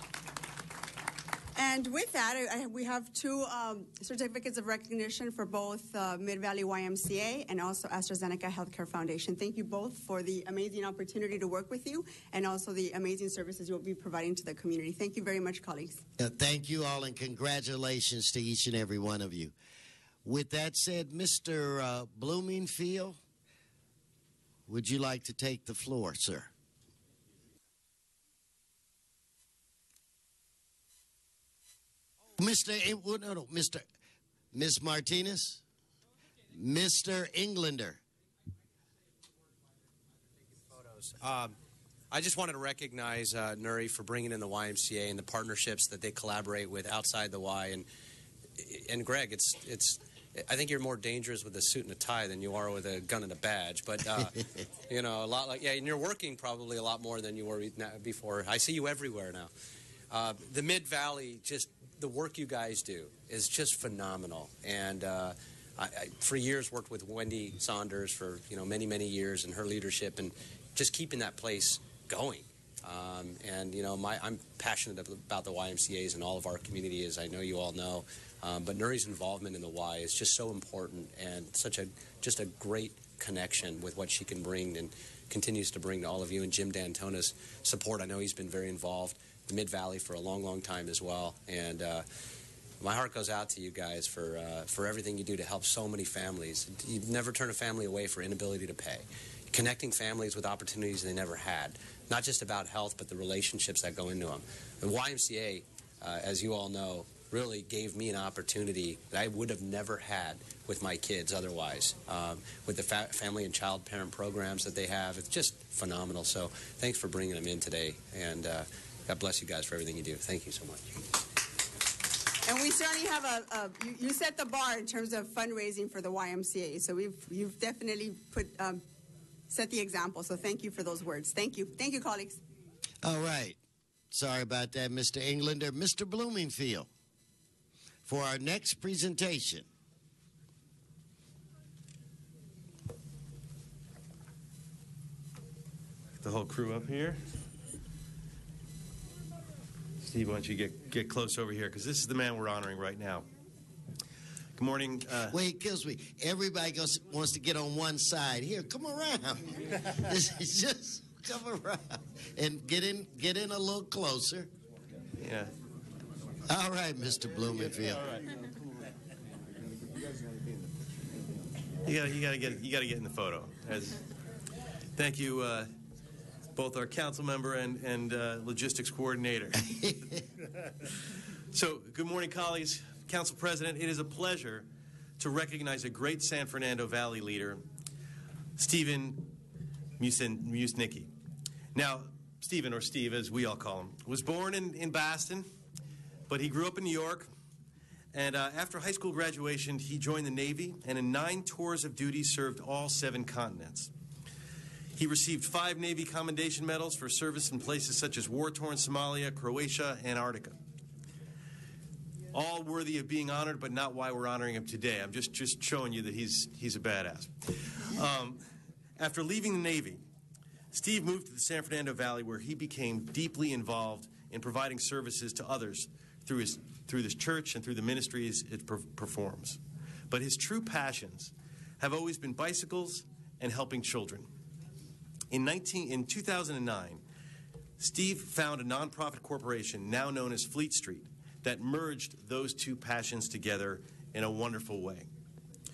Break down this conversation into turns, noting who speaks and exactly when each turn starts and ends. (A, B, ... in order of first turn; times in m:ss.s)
0:01.6-0:16.0 A
0:16.2-0:19.5 B
0:20.2-0:23.2 B
0:24.7-0:26.5 B
0:32.4-0:33.8 B
0:34.5-0:35.6 B
0:36.5-0:38.0 B
0:41.0-0:41.6 C
0:42.1-0:47.9 C
0:48.6-0:54.4 C
0:54.9-0:59.5 C
1:00.1-1:32.1 C
1:32.8-2:01.0 C
2:02.4-2:08.8 A
2:09.5-2:12.4 A
2:13.0-2:13.6 B
2:14.1-2:16.9 B
2:18.1-2:19.7 B
2:26.2-2:27.2 D
2:30.0-2:33.3 D
2:34.6-2:35.4 D
2:35.3-2:44.5 B
2:45.2-2:45.5 D
2:46.5-2:48.1 B
2:51.8-2:54.0 D
2:55.0-2:55.7 D
2:56.6-2:59.6 D
3:01.5-3:07.6 D
3:08.6-3:09.4 D
3:10.0-3:11.1 D
3:11.7-3:15.5 D
3:16.3-3:17.3 D
3:18.1-3:23.9 D
3:25.0-3:30.6 D
3:32.3-3:38.4 D
3:39.0-3:40.0 D
3:40.7-3:54.3 D
3:55.3-3:57.0 D
3:57.8-4:05.1 D